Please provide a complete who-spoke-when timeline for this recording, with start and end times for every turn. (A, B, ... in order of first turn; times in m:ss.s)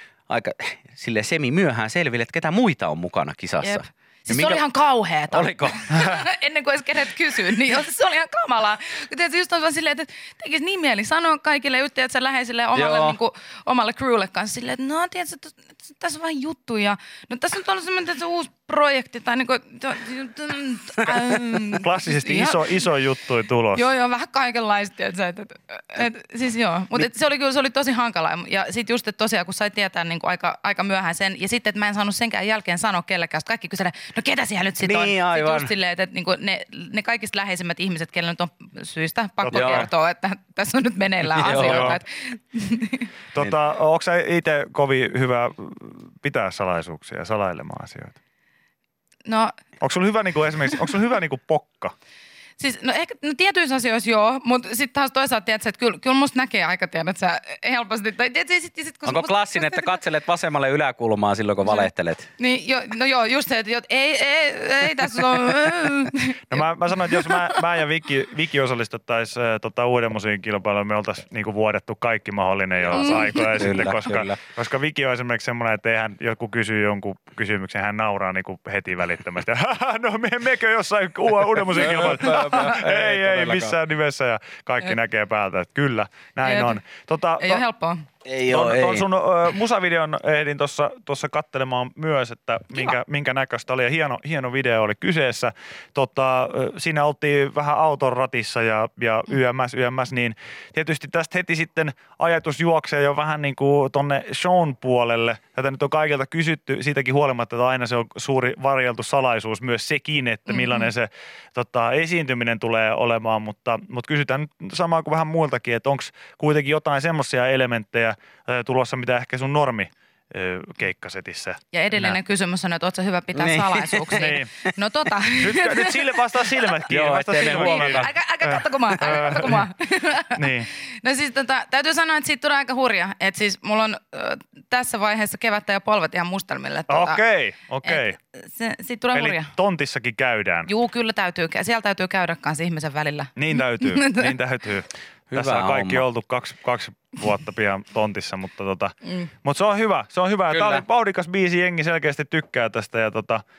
0:00.3-0:04.6 A
0:03.6-0:22.8 B
0:05.3-0:06.1 A
0:12.7-0:13.2 A
0:21.8-0:23.8 C
0:23.7-0:43.1 B
0:34.8-0:35.7 A
0:39.4-0:39.9 C
0:39.5-0:39.9 A
0:41.3-0:42.0 A
0:41.4-0:42.0 C
0:43.3-0:48.2 C
0:49.2-0:49.5 B
0:49.8-0:51.9 C
0:52.6-1:00.0 B
0:59.0-1:02.3 A
1:01.6-1:07.6 B
1:06.5-1:27.6 C
1:12.9-1:13.6 B
1:12.9-1:14.4 A
1:21.6-1:23.8 A
1:26.4-1:26.8 B
1:27.4-1:28.0 B
1:28.2-1:29.0 A
1:28.5-2:02.2 C
1:50.5-1:50.9 B
2:01.7-2:06.0 B
2:03.3-2:04.4 A
2:04.2-2:04.5 C
2:05.4-2:09.7 C
2:06.9-2:08.1 A
2:07.4-2:17.2 B
2:08.9-2:09.2 A
2:10.3-2:10.7 C
2:16.9-2:18.2 C
2:17.8-2:19.5 B
2:19.1-2:20.7 C
2:20.6-2:24.4 B
2:23.4-2:33.4 C
2:25.3-2:26.0 A
2:30.5-2:30.8 A